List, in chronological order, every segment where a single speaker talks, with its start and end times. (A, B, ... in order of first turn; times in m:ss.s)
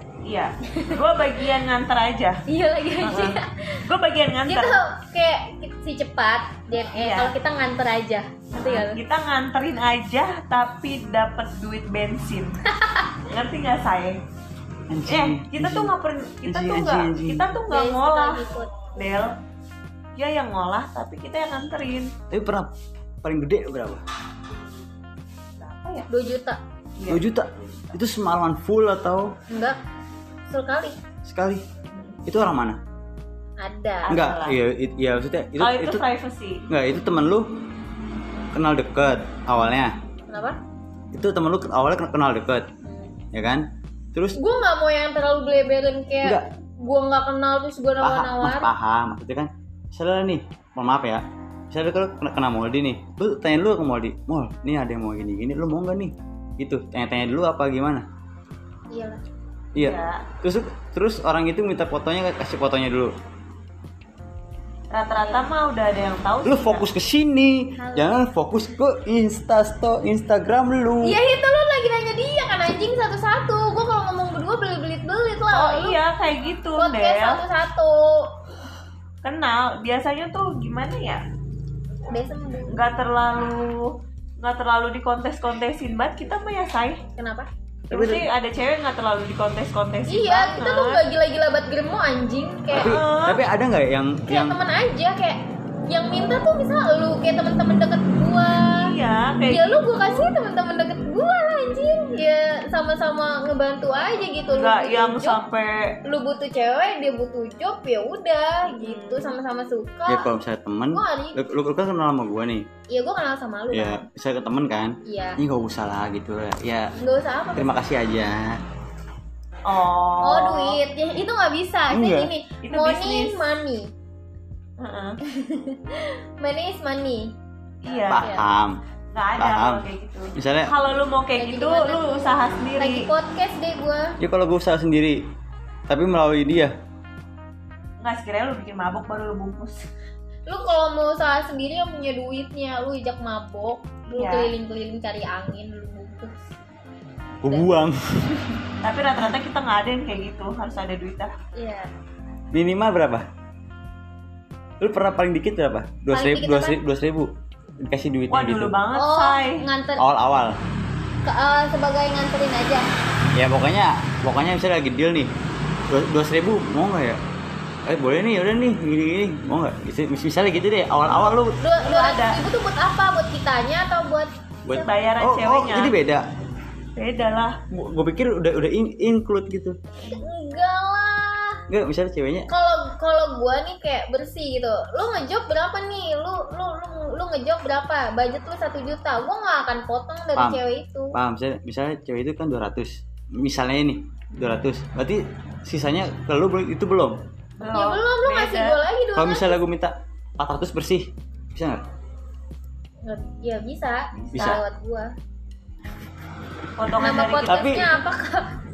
0:00.2-0:02.4 A
0:00.6-0:01.0 B
0:02.5-0:03.9 B
0:03.0-0:04.8 A
0:04.5-0:09.0 B
0:06.9-0:07.3 A
0:08.6-0:12.6 A
0:12.7-0:13.1 B
0:13.3-0:14.2 A
0:14.9-0:15.9 C
0:15.1-0:19.3 A
0:16.4-0:17.5 C
0:17.7-0:18.9 B
0:20.2-0:22.1 A
0:22.3-0:22.7 C
0:23.2-0:24.0 C
0:25.6-0:26.1 A
0:26.1-0:26.6 B
0:27.0-0:27.2 A
0:27.1-0:29.4 C
0:29.5-0:29.8 B
0:30.5-0:31.0 B
0:31.2-0:31.6 C
0:31.9-0:32.2 A
0:32.3-0:32.8 C
0:33.6-0:34.2 B
0:34.1-0:34.6 A
0:34.1-0:36.0 C
0:35.6-0:36.6 A
0:36.7-0:37.5 C
0:38.5-0:39.9 C
0:40.3-0:40.6 B
0:41.1-0:42.7 C
0:42.8-0:43.2 B
0:43.3-0:44.4 C
0:44.4-0:48.7 B
0:48.0-0:58.0 C
0:58.9-0:59.2 B
0:59.8-1:03.1 C
0:59.8-1:00.3 A
1:04.9-1:06.9 A
1:06.4-1:11.2 C
1:07.8-1:08.2 B
1:11.0-1:16.0 B
1:15.5-1:17.4 A
1:16.8-1:18.3 B
1:19.2-1:21.2 A
1:22.1-1:22.8 B
1:22.7-1:27.0 A
1:27.2-1:27.5 B
1:27.9-1:31.0 A
1:27.9-1:28.3 C
1:30.1-1:33.0 B
1:32.7-1:34.6 C
1:32.8-1:33.4 A
1:34.3-1:38.9 B
1:38.7-1:39.8 A
1:39.5-1:45.4 B
1:44.5-1:46.0 A
1:46.0-1:50.3 B
1:48.7-1:49.4 A
1:50.1-1:52.7 C
1:50.9-1:51.4 B
1:52.9-1:54.0 B
1:53.7-1:57.0 C
1:55.0-1:55.4 B
1:57.0-1:57.8 B
1:57.6-1:58.6 C
1:59.6-2:00.8 A
2:00.2-2:03.9 B
2:01.9-2:02.3 C
2:02.6-2:03.4 A
2:04.8-2:05.2 A
2:05.2-2:07.3 B
2:07.8-2:08.4 A
2:07.9-2:08.4 B
2:08.1-2:08.8 C
2:09.1-2:13.1 A
2:09.4-2:09.8 C
2:10.4-2:10.7 C
2:11.4-2:14.2 B
2:14.2-2:15.2 C
2:15.9-2:16.7 C
2:18.0-2:19.9 A
2:20.5-2:26.4 B
2:24.1-2:24.5 A
2:27.4-2:28.4 C
2:28.8-2:31.3 A
2:31.6-2:31.9 B
2:32.5-2:33.3 C
2:34.8-2:38.8 C
2:36.1-2:36.8 B
2:38.3-2:39.6 A
2:38.9-2:40.1 B
2:40.0-2:40.6 C
2:41.2-2:42.9 B
2:43.4-2:45.3 C
2:45.9-2:47.2 C
2:47.9-2:51.6 C
2:51.5-2:54.9 B
2:51.8-2:52.5 A
2:54.7-2:56.2 C
2:54.8-2:55.9 A
2:57.0-2:57.6 A
2:57.7-2:59.8 C
3:00.0-3:01.6 B
3:01.7-3:02.5 C
3:02.5-3:11.2 B
3:11.1-3:17.2 C
3:17.6-3:18.8 A
3:17.7-3:19.6 B
3:19.2-3:21.8 C
3:23.1-3:25.1 B
3:24.2-3:24.6 A
3:24.3-3:24.6 C
3:26.8-3:28.0 A
3:27.0-3:28.5 B
3:27.5-3:27.9 C